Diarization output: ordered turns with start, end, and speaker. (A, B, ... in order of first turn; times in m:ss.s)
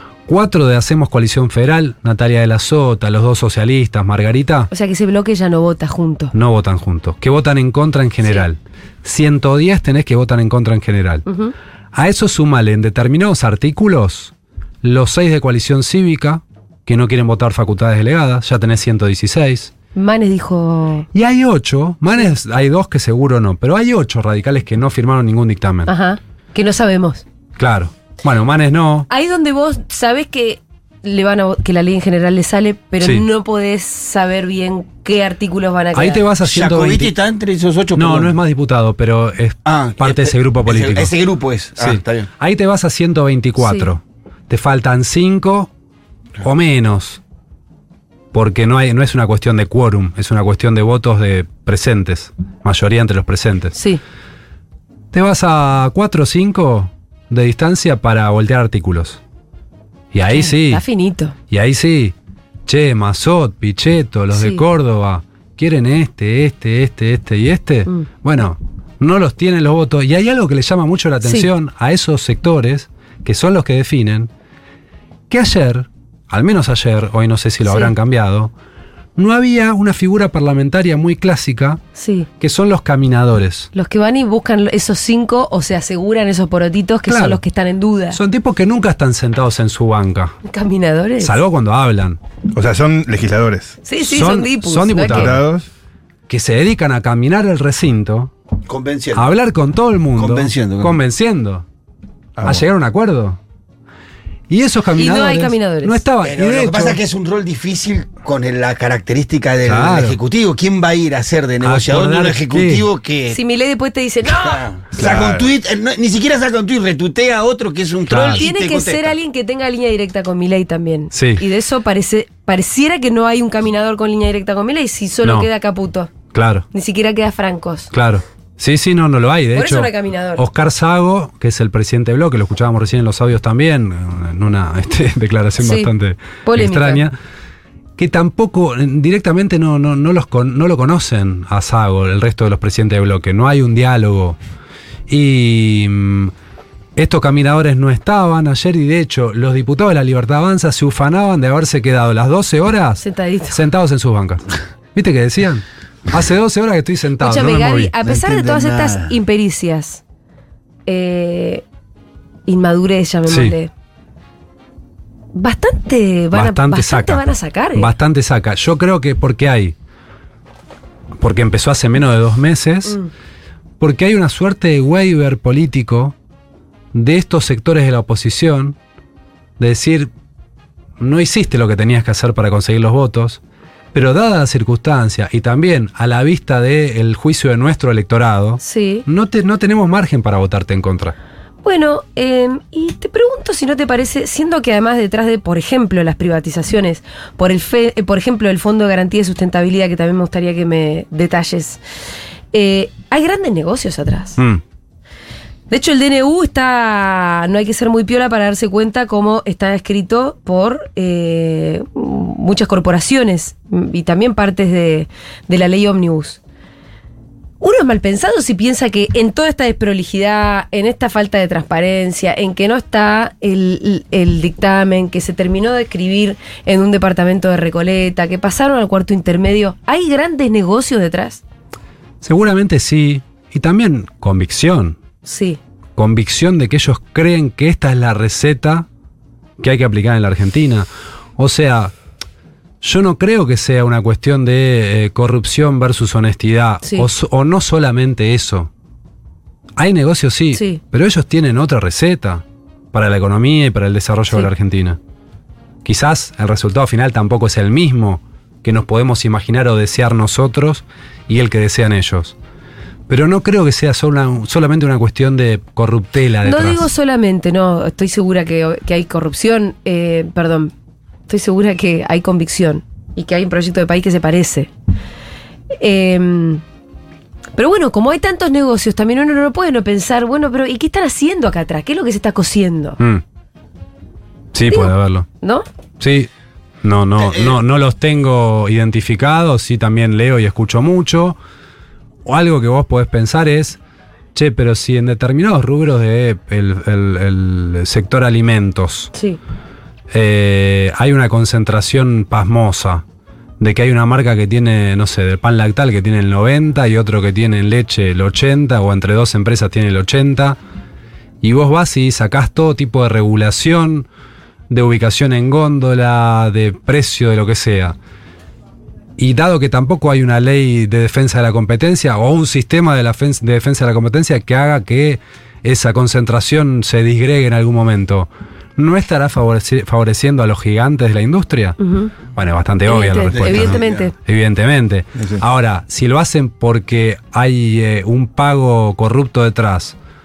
0:00.3-0:04.7 A
0:04.7-0:06.3 B
0:06.3-0:11.3 A
0:11.3-0:11.5 B
0:11.9-0:19.7 A
0:20.0-0:21.1 B
0:21.1-0:25.9 A
0:25.9-0:27.2 B
0:27.6-0:29.1 A
0:29.1-0:36.2 B
0:33.0-0:33.3 A
0:35.9-0:37.1 A
0:36.4-0:38.4 C
0:38.0-0:41.1 A
0:39.7-0:42.3 C
0:41.8-0:45.7 A
0:43.6-0:43.9 B
0:46.4-0:47.2 A
0:48.3-0:53.8 A
0:53.8-0:54.0 B
0:55.1-0:59.2 A
1:00.1-1:00.8 A
1:00.3-1:01.4 B
1:01.5-1:02.2 A
1:02.7-1:14.3 A
1:04.3-1:04.6 B
1:15.3-1:18.5 A
1:17.6-1:17.9 B
1:19.2-1:21.8 A
1:22.0-1:22.3 B
1:22.4-1:23.7 A
1:23.7-1:28.2 B
1:27.1-1:27.4 A
1:28.1-1:30.4 A
1:30.4-1:31.4 B
1:31.2-1:32.2 A
1:32.5-1:33.8 D
1:33.8-1:35.3 B
1:34.0-1:35.4 A
1:35.1-1:35.7 D
1:36.3-1:38.3 A
1:38.7-1:39.3 C
1:39.1-1:41.6 A
1:40.2-1:41.0 C
1:42.4-1:42.6 D
1:42.4-1:43.4 A
1:44.5-1:47.0 A
1:45.0-1:46.0 B
1:46.2-1:53.4 C
1:49.6-1:50.2 A
1:51.6-1:52.9 A
1:53.3-1:54.6 B
1:54.3-1:59.2 C
1:55.0-1:55.6 D
1:58.1-1:58.5 A
1:58.3-2:06.1 B
2:01.1-2:01.4 A
2:06.3-2:06.7 A
2:06.7-2:07.9 B
2:07.9-2:17.1 A
2:09.6-2:10.4 B
2:15.6-2:15.9 B
2:16.4-2:17.0 B
2:18.0-2:24.4 A
2:25.1-2:26.3 A
2:27.0-2:37.9 A
2:33.0-2:33.6 B
2:37.2-2:40.0 B
2:38.0-2:39.2 C
2:40.9-2:41.6 B
2:42.5-2:43.7 B
2:43.3-2:43.6 A
2:45.3-2:47.9 B
2:46.3-2:47.2 A
2:47.8-2:49.8 A
2:51.2-2:53.0 A
2:53.8-2:56.2 A
2:56.9-2:58.8 A
2:59.6-3:00.1 A
3:01.0-3:03.4 A
3:03.9-3:11.2 A
3:08.6-3:09.0 B
3:11.6-3:21.8 B
3:22.5-3:24.4 B
3:25.7-3:36.4 B
3:37.6-3:51.4 B
3:52.2-3:55.0 A
3:55.2-3:55.6 B
3:56.0-3:58.9 A
3:59.6-4:01.9 A
4:02.8-4:08.7 A
4:09.8-4:15.0 A
4:10.5-4:10.8 B
4:15.8-4:22.4 A
4:23.1-4:26.9 A
4:26.4-4:30.7 B
4:31.3-4:34.7 B
4:35.7-4:36.6 B
4:37.6-4:43.0 B
4:44.5-4:45.3 A
4:44.7-4:45.7 B
4:46.0-4:46.3 A
4:46.8-4:51.4 A
4:47.2-4:47.6 C
4:52.3-4:53.8 A
4:54.4-4:59.1 A
4:59.1-4:59.4 B
5:00.1-5:03.0 A
5:03.6-5:10.6 A
5:11.4-5:14.1 A
5:14.7-5:18.0 A
5:19.2-5:31.8 A
5:31.8-5:32.1 B
5:32.3-5:40.0 A
5:32.9-5:34.1 B
5:33.3-5:34.1 C